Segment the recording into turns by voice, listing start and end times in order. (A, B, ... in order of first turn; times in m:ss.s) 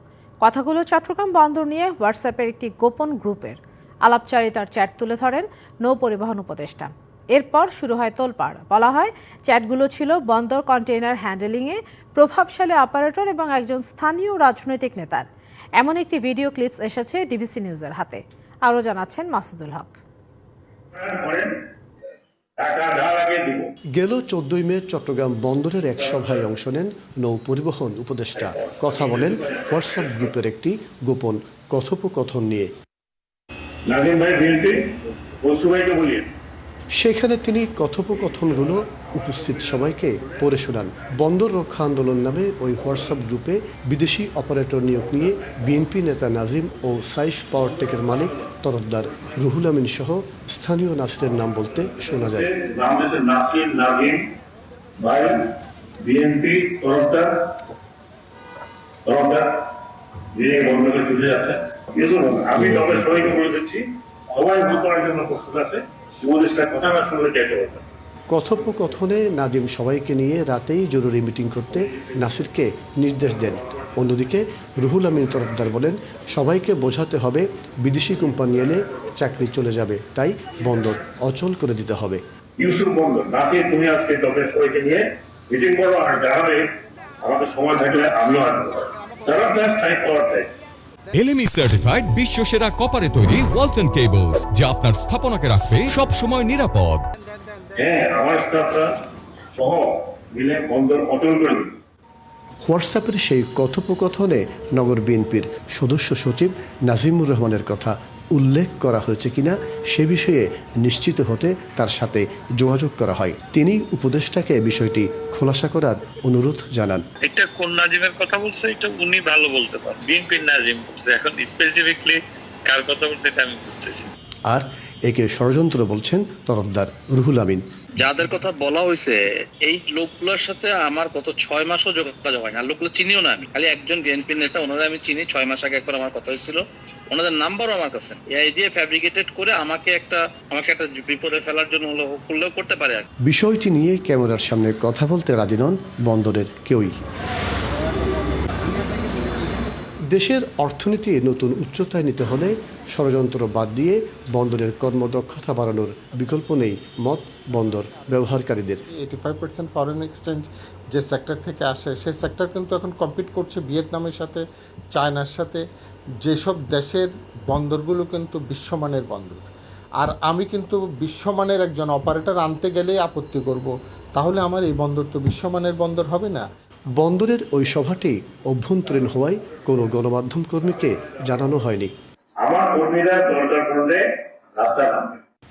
0:00.4-0:15.3 A
0:15.8-0:20.0 A
0:20.9-0:21.5 B
0:22.6-0:23.7 B
0:24.0-0:32.7 C
0:28.4-0:30.3 B
0:33.9-0:36.3 B
0:37.0-0:52.5 C
0:38.4-0:40.6 B
0:52.1-0:54.3 B
0:55.0-0:57.7 B
0:59.1-0:59.7 B
1:00.3-1:07.8 B
1:08.3-1:22.2 C
1:22.6-1:26.7 B
1:27.2-1:30.5 B
1:31.1-1:37.0 D
1:37.8-1:38.9 B
1:39.5-1:41.8 B
1:42.6-1:57.0 C
1:57.2-2:04.1 E
2:04.5-2:07.6 C
2:08.0-2:23.0 F
2:23.3-2:26.9 C
2:30.1-2:38.8 C
2:39.0-2:44.4 G
2:44.9-2:45.6 G
2:46.2-2:49.4 G
2:50.0-2:56.4 G
2:57.0-3:01.9 C
3:02.4-3:04.0 B
3:04.6-3:05.2 B